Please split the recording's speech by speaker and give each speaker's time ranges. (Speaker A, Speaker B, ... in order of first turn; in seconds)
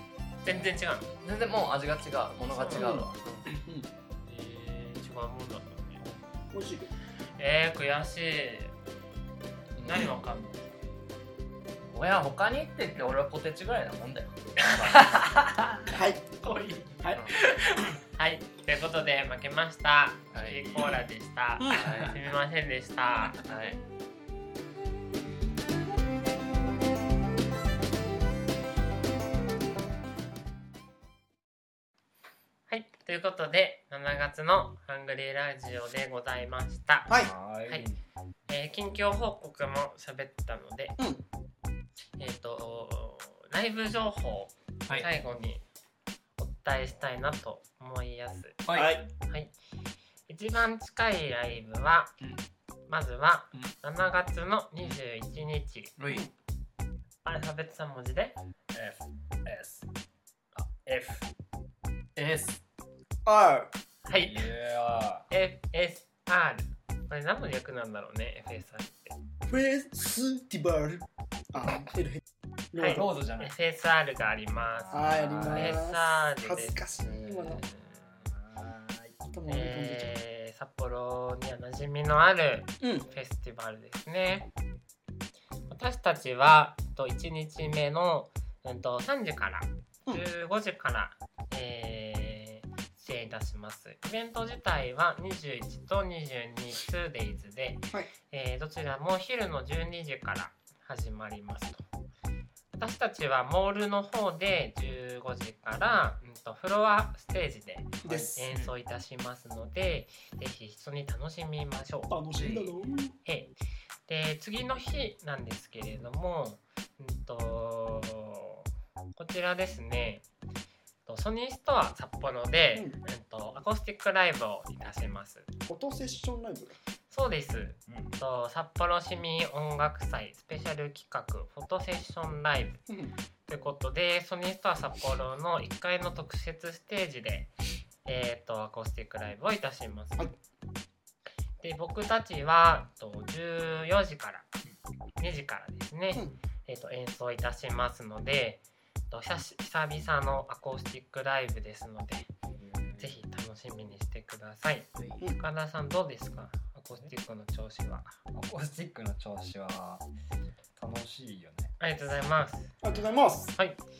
Speaker A: 0.4-1.1, 2.5-2.9, 4.2-6.0, 7.4-8.7, 9.8-10.6, 14.6-15.1, 16.4-23.4, 32.7-37.1, 38.5-41.0, 42.2-45.6, 46.4-48.6, 49.2-49.5, 50.3-52.1, 52.9-55.9, 57.2-58.4, 64.0-64.5, 65.3-69.2, 72.8-76.8, 79.5-84.5, 85.7-101.8, 102.7-112.1, 113.2-113.5, 114.1-118.6, 119.2-120.2, 121.0-125.5, 127.1-132.8, 133.5-137.5, 138.0-140.3, 141.6-144.4, 145.2-152.3, 153.0-158.1, 161.8-162.7, 163.5-163.8
Speaker B: 1.2-3.5, 9.8-10.1, 11.9-15.3, 17.1-17.3, 20.3-21.0, 21.7-22.2, 23.4-23.8, 48.6-49.0, 56.0-56.3, 62.1-62.6, 112.4-112.7
Speaker C: 2.8-3.9, 6.5-6.9, 15.9-16.3, 17.0-17.3, 37.1-37.3, 48.7-49.0, 63.2-63.7, 69.5-72.2, 72.7-73.0, 74.9-77.6, 79.2-80.1, 82.8-83.1, 108.0-108.4, 112.1-113.2, 125.6-126.8, 132.9-133.1, 162.8-163.5
Speaker D: 37.1-38.0, 58.7-59.9, 60.5-61.2, 64.1-65.2, 72.8-73.5, 74.8-75.8, 77.0-79.2, 127.9-128.1, 152.6-153.2, 158.3-160.0, 160.8-161.7